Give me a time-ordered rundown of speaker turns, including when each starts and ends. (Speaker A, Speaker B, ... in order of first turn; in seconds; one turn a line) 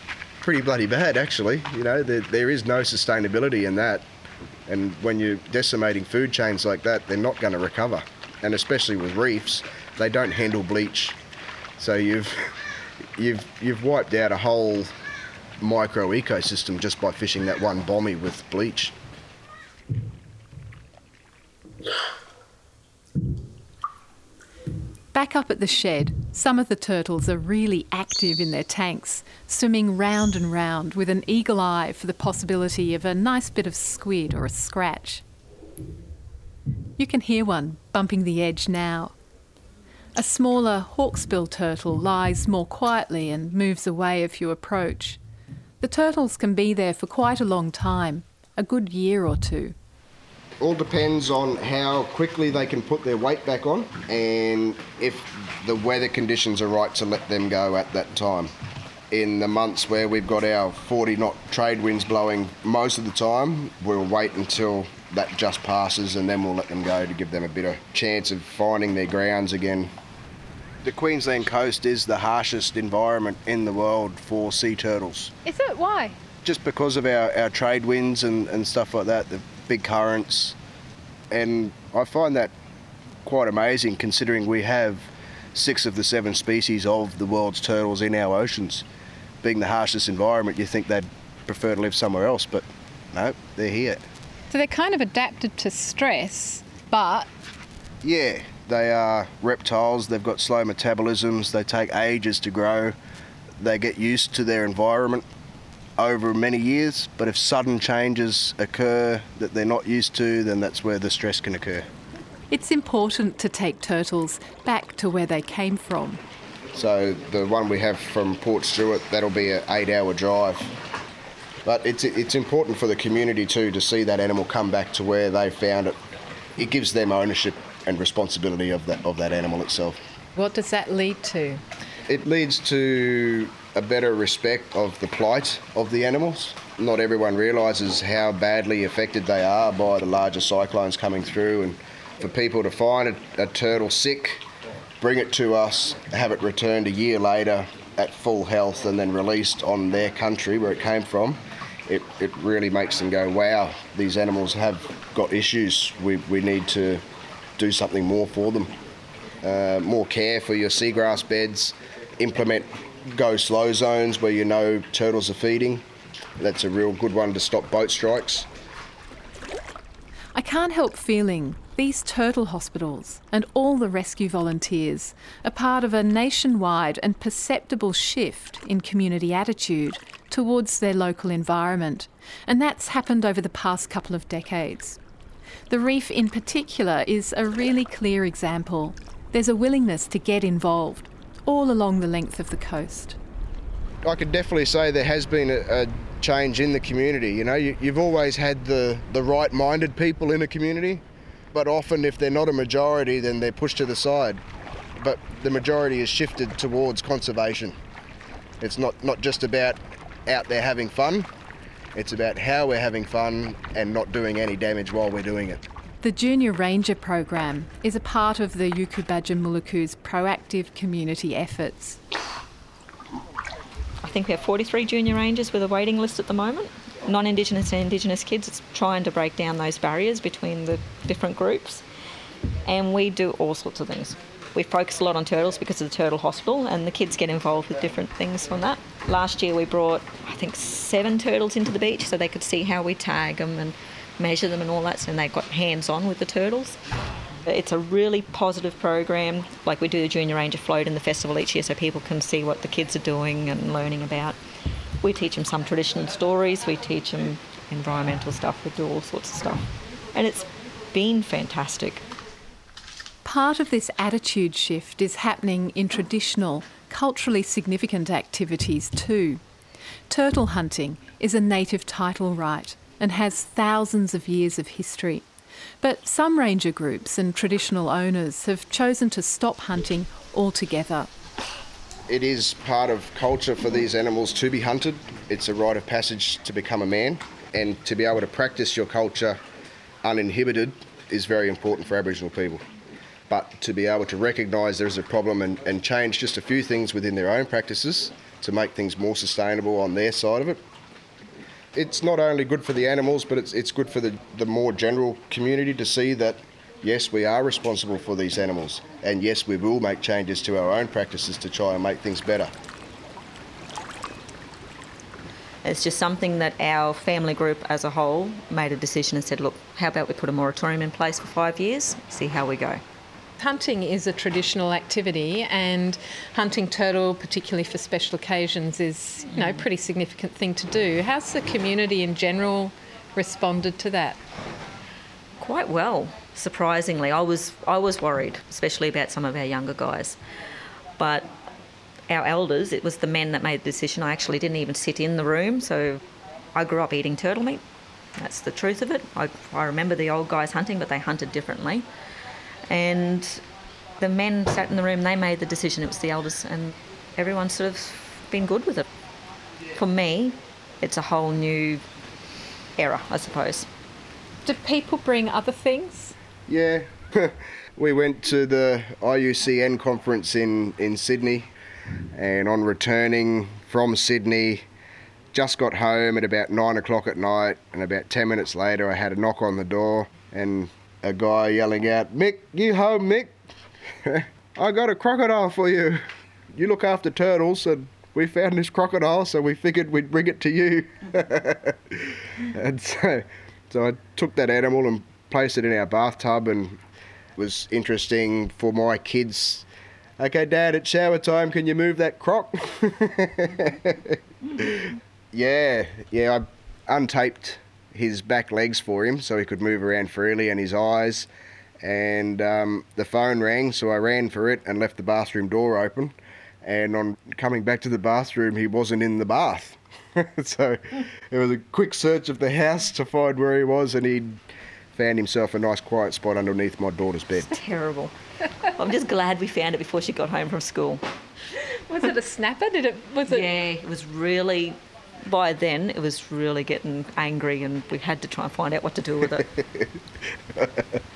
Speaker A: 0.4-4.0
Speaker A: 4.7-11.2
Speaker A: 11.8-12.5
Speaker A: 13.2-14.9
Speaker A: 15.6-18.9
Speaker B: 25.1-35.2
Speaker B: 37.0-39.1
Speaker B: 40.1-45.2
Speaker B: 45.8-49.7
Speaker A: 50.6-58.5
Speaker A: 59.1-69.9
Speaker A: 70.8-75.3
Speaker B: 75.4-76.2
Speaker A: 76.4-80.5
Speaker A: 81.3-82.5
Speaker A: 83.2-88.8
Speaker A: 89.4-94.0
Speaker B: 94.5-97.3
Speaker A: 98.0-103.0
Speaker A: 103.6-105.2
Speaker A: 106.0-111.9
Speaker B: 112.5-116.2
Speaker A: 116.7-120.7
Speaker A: 121.6-126.0
Speaker A: 126.5-130.0
Speaker B: 130.3-131.6
Speaker A: 132.1-144.4
Speaker A: 145.0-157.0
Speaker A: 157.6-158.7
Speaker A: 159.4-165.8
Speaker A: 166.4-168.5
Speaker B: 170.3-185.0
Speaker B: 185.7-193.2
Speaker A: 194.0-204.4
Speaker A: 205.0-207.8
Speaker A: 208.6-211.3
Speaker A: 211.9-215.6
Speaker B: 216.0-222.0
Speaker C: 224.0-231.8
Speaker C: 232.6-246.8
Speaker C: 247.4-254.4
Speaker C: 255.0-262.1
Speaker B: 263.2-269.4
Speaker B: 270.1-275.2
Speaker B: 275.8-281.1
Speaker A: 282.1-289.4
Speaker A: 290.0-292.6
Speaker A: 293.3-300.6
Speaker A: 301.7-312.5
Speaker C: 315.6-322.8
Speaker B: 323.4-334.2
Speaker C: 329.3-329.6
Speaker C: 335.4-340.2
Speaker C: 341.0-341.3
Speaker C: 342.1-346.0
Speaker C: 346.5-347.6
Speaker C: 348.2-351.9
Speaker C: 352.7-353.4
Speaker C: 354.0-358.9
Speaker C: 359.7-361.8
Speaker C: 362.8-363.7
Speaker B: 364.4-366.1
Speaker A: 366.5-371.5
Speaker A: 372.1-374.6
Speaker A: 375.3-383.3
Speaker A: 384.0-396.8
Speaker A: 397.4-399.6
Speaker A: 400.2-411.3
Speaker A: 411.8-424.4
Speaker A: 424.9-427.5
Speaker C: 427.4-428.1
Speaker C: 428.7-431.0
Speaker B: 431.9-433.5
Speaker C: 433.2-439.5